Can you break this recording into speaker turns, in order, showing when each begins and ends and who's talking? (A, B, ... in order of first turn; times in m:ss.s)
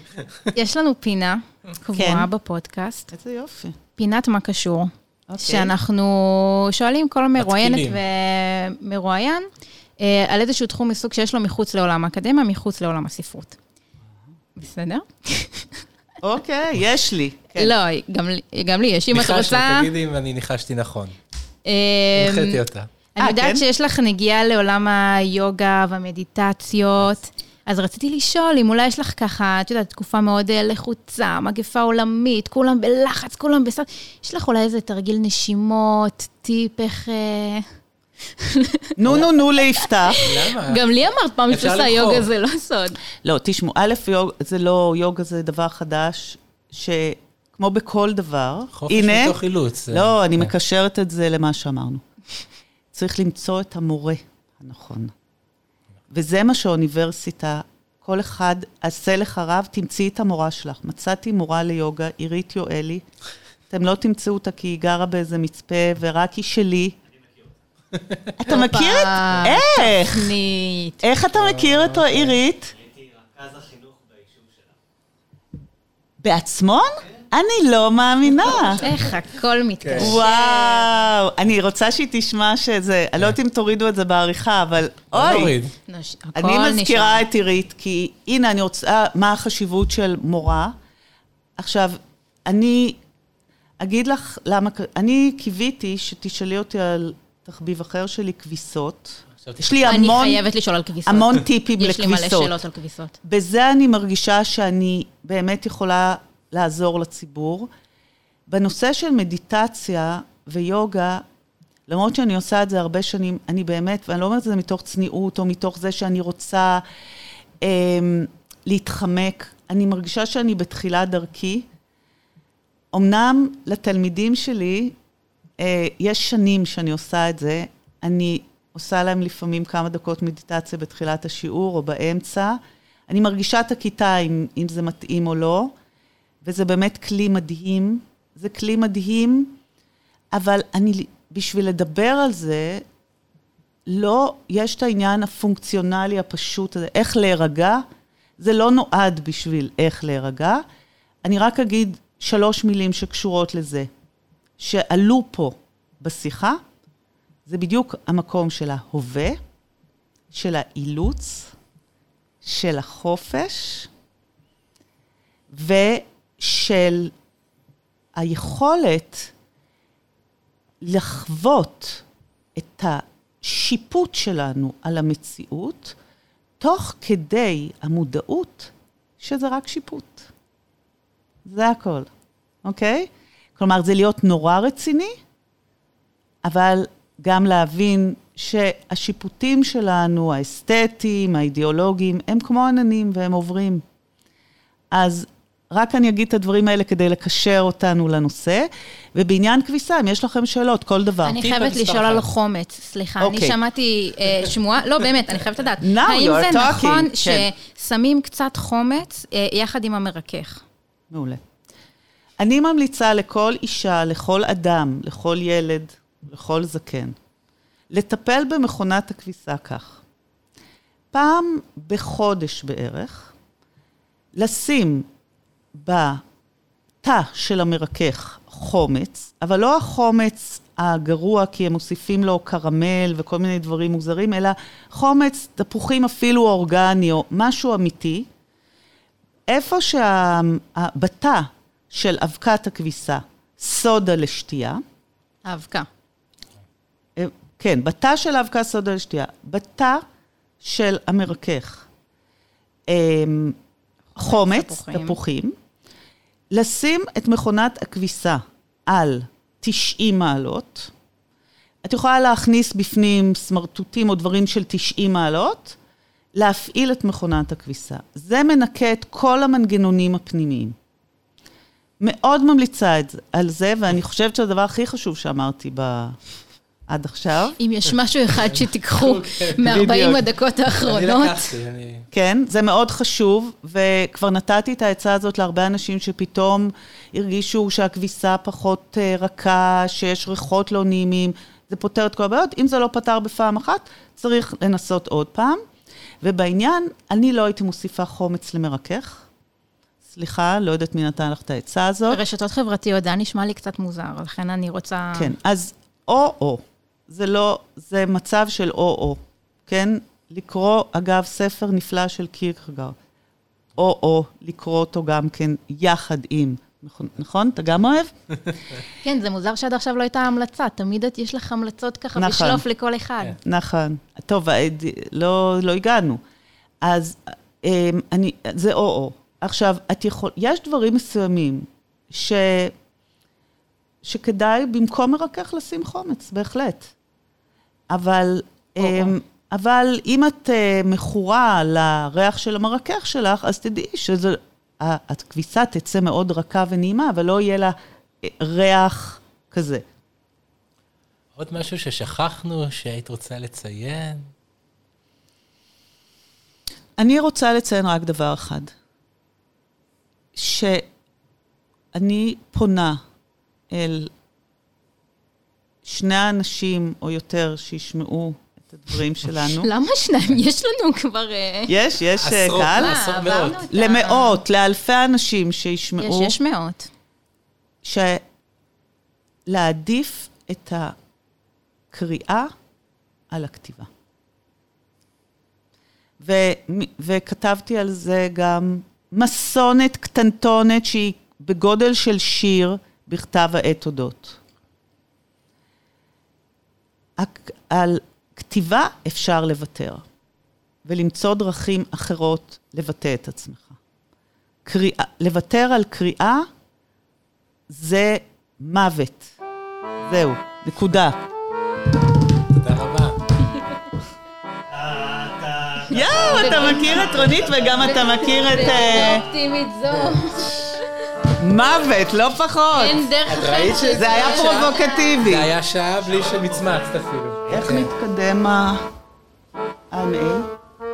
0:00.5-0:03.1 A
0:02.0-0:02.3 B
0:03.1-0:03.8 B
0:04.0-0:09.5 A
0:05.3-0:05.7 B
0:07.4-0:08.0 C
0:10.0-0:13.6 A
0:14.6-0:15.8 A
0:16.2-0:17.7 B
0:17.6-0:19.9 A
0:19.1-0:21.2 C
0:21.7-0:22.6 A
0:22.2-0:22.9 C
0:23.2-0:37.7 A
0:23.2-0:23.6 B
0:38.4-0:43.0 A
0:39.0-0:40.2 B
0:40.2-0:40.8 C
0:41.5-0:42.3 C
0:43.2-0:52.0 B
0:48.8-0:50.5 C
0:52.9-0:55.1 B
0:56.1-1:03.0 B
1:03.7-1:07.0 B
1:07.9-1:08.2 C
1:08.4-1:10.4 B
1:08.4-1:11.0 A
1:11.0-1:12.8 B
1:11.4-1:12.4 C
1:16.2-1:18.9 B
1:18.8-1:20.9 A
1:19.8-1:20.2 C
1:20.0-1:25.6 B
1:25.1-1:25.7 C
1:25.9-1:27.2 A
1:26.4-1:30.8 B
1:31.6-1:33.0 B
1:33.8-1:40.4 B
1:39.4-1:40.0 C
1:39.9-1:43.2 A
1:41.1-1:42.6 B
1:43.2-1:47.7 B
1:48.5-1:51.2 B
1:51.9-1:56.8 B
1:57.6-2:01.7 B
2:02.9-2:05.0 B
2:05.6-2:15.7 B
2:16.4-2:19.6 B
2:20.3-2:22.8 B
2:23.9-2:27.8 B
2:28.4-2:30.6 B
2:31.2-2:33.9 B
2:34.6-2:36.6 B
2:37.5-2:39.4 B
2:40.3-2:41.5 B
2:42.4-2:43.9 B
2:45.5-2:47.1 B
2:48.2-2:49.3 B
2:50.8-2:52.0 B
2:52.6-2:56.0 B
2:56.6-3:00.3 B
3:01.4-3:02.1 B
3:02.6-3:05.2 B
3:06.4-3:13.8 B
3:14.9-3:21.4 B
3:21.2-3:30.6 A
3:21.4-3:22.3 C
3:23.2-3:23.6 B
3:25.8-3:27.5 B
3:31.1-3:31.4 B
3:32.4-3:37.2 B
3:37.9-3:40.0 B
3:41.1-3:43.3 B
3:44.4-3:45.1 B
3:45.8-3:46.2 B
3:47.0-3:58.3 B
3:59.5-4:04.8 B
4:05.4-4:05.9 A
4:07.2-4:10.0 B
4:10.6-4:11.9 B
4:12.9-4:13.6 B
4:14.2-4:15.2 A
4:14.2-4:15.6 B
4:16.5-4:20.9 B
4:21.8-4:25.8 B
4:26.4-4:30.8 B
4:32.0-4:36.2 B
4:36.9-4:37.6 B
4:37.6-4:41.5 A
4:38.4-4:39.9 C
4:39.6-4:40.2 B
4:40.8-4:42.0 C
4:42.1-4:55.6 B
4:56.2-4:59.3 B
5:00.1-5:02.2 B
5:02.1-5:05.4 A
5:05.1-5:13.0 B
5:13.8-5:18.1 B
5:19.0-5:23.4 A
5:22.2-5:22.6 B
5:23.4-5:26.2 B
5:26.8-5:32.7 B
5:34.0-5:36.9 B
5:37.9-5:49.8 B
5:38.8-5:39.1 A
5:51.4-5:54.3 C
5:57.0-5:58.7 B
6:00.4-6:00.9 B
6:01.9-6:03.0 B
6:03.7-6:04.1 B
6:05.8-6:09.7 B
6:09.6-6:11.7 A
6:11.7-6:13.0 B
6:12.2-6:13.6 C
6:12.7-6:14.4 A
6:13.7-6:16.3 B
6:16.0-6:16.9 A
6:17.8-6:18.2 B
6:19.5-6:21.0 B
6:21.9-6:22.5 B
6:23.3-6:23.9 B
6:26.2-6:34.4 B
6:37.2-6:40.0 B
6:40.8-6:43.8 B
6:44.6-6:46.5 B
6:47.7-6:49.3 B
6:50.0-6:51.2 B
6:52.5-6:53.2 C
6:55.8-6:56.6 C
6:55.9-6:59.3 B
6:56.1-7:01.1 A
7:01.4-7:03.1 B
7:02.7-7:05.2 A
7:03.3-7:07.9 C
7:03.9-7:05.5 B
7:07.5-7:08.8 B
7:09.9-7:10.5 B